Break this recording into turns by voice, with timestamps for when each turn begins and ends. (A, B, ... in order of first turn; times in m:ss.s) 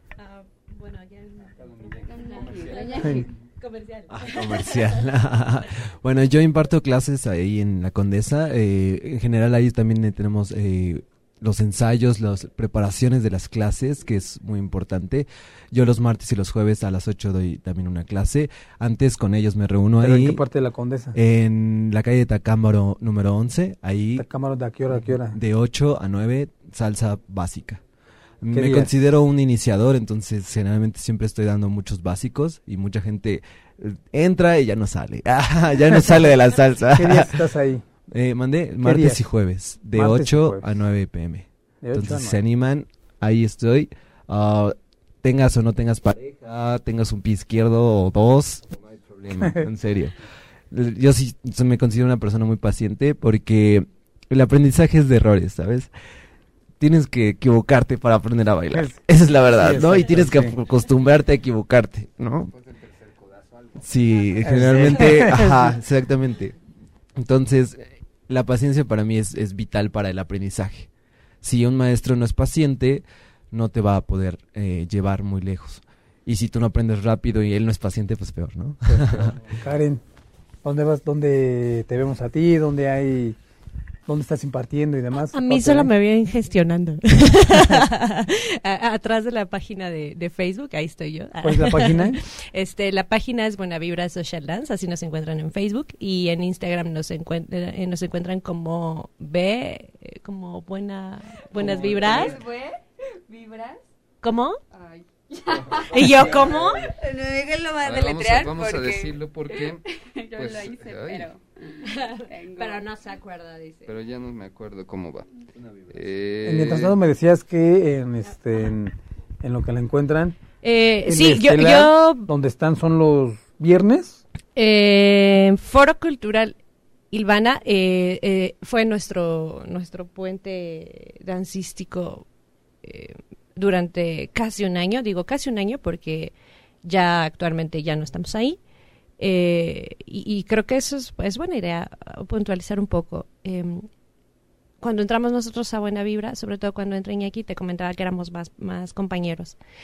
0:00.2-0:04.9 A
0:01.6-0:03.3 B
0:02.0-0:03.2 C
0:04.1-0:20.4 D
0:20.0-0:21.2 E
0:21.1-0:24.2 D
0:24.2-0:25.4 E
0:24.9-0:27.8 D
0:28.4-0:37.4 D
0:28.5-0:28.9 E
0:36.9-0:37.8 E
0:38.1-0:50.1 D
0:38.8-0:39.2 E
0:39.9-0:40.7 E
0:41.8-0:42.4 E
0:50.7-0:55.9 D
0:56.8-1:02.5 D
0:58.7-0:59.0 E
0:59.6-1:00.5 E
1:02.5-1:04.0 B
1:03.8-1:06.6 D
1:04.4-1:05.7 E
1:07.2-1:10.9 D
1:11.4-1:19.4 D
1:18.9-1:20.0 E
1:20.6-1:23.4 E
1:24.0-1:25.9 E
1:25.3-1:42.4 A
1:27.6-1:27.8 E
1:31.4-1:32.2 E
1:41.6-1:42.4 B
1:41.8-1:43.8 C
1:44.2-1:44.6 A
1:44.7-1:52.8 C
1:45.8-1:46.8 A
1:47.8-1:51.3 B
1:52.6-1:53.9 A
1:53.8-1:55.3 B
1:55.9-1:57.0 B
1:56.4-2:00.4 E
2:00.6-2:02.3 A
2:01.0-2:04.2 E
2:04.5-2:06.6 A
2:07.1-2:12.2 A
2:12.8-2:18.6 A
2:19.2-2:23.9 A
2:24.8-2:29.6 A